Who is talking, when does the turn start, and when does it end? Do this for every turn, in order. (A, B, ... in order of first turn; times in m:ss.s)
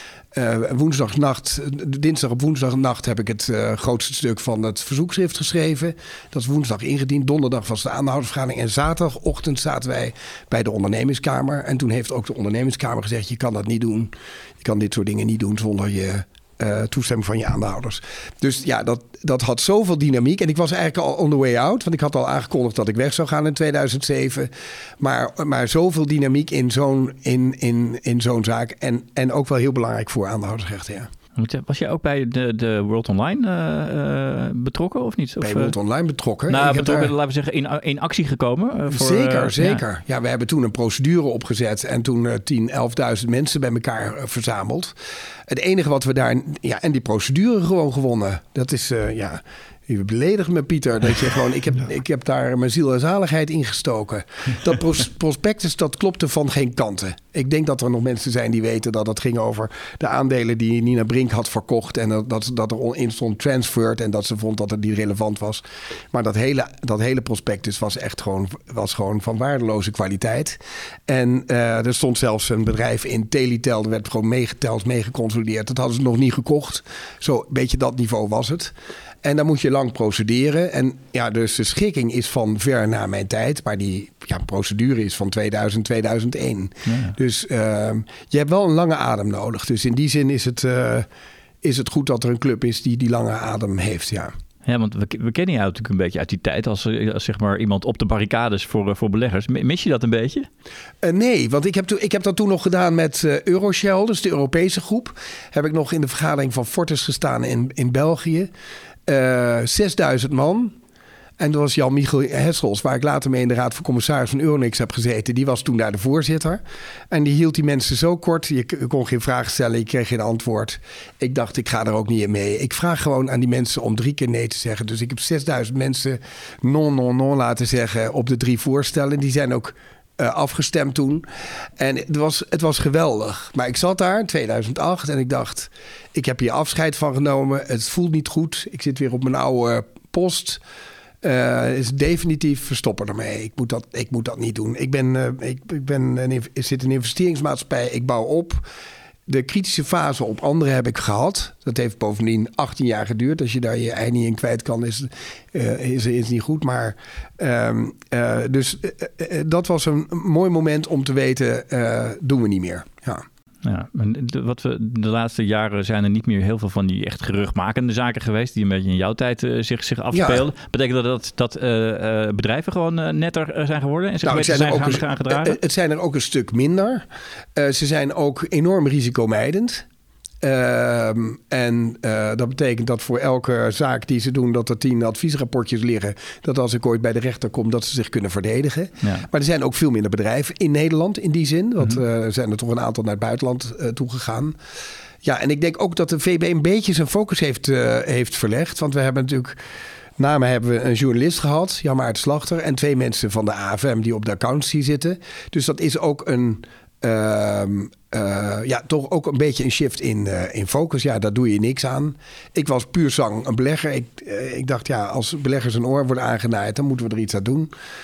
0:00.3-0:31.1 A
0:31.4-0:35.8 B
0:35.4-0:37.1 A
0:36.5-0:39.8 B
0:38.9-0:44.9 A
0:45.5-1:31.1 A
1:26.8-1:27.2 B
1:31.6-1:34.3 A
1:34.6-1:40.5 B
1:41.0-1:48.5 A
1:49.1-1:50.7 A
1:51.4-2:11.2 A
2:11.8-2:20.6 A
2:21.2-2:28.6 A
2:29.3-2:43.2 A
2:43.6-2:55.6 B
2:50.1-2:50.4 A
2:54.2-2:59.8 A
3:00.4-3:14.6 A
3:09.0-3:09.3 B
3:15.2-3:19.6 A
3:20.2-3:37.7 A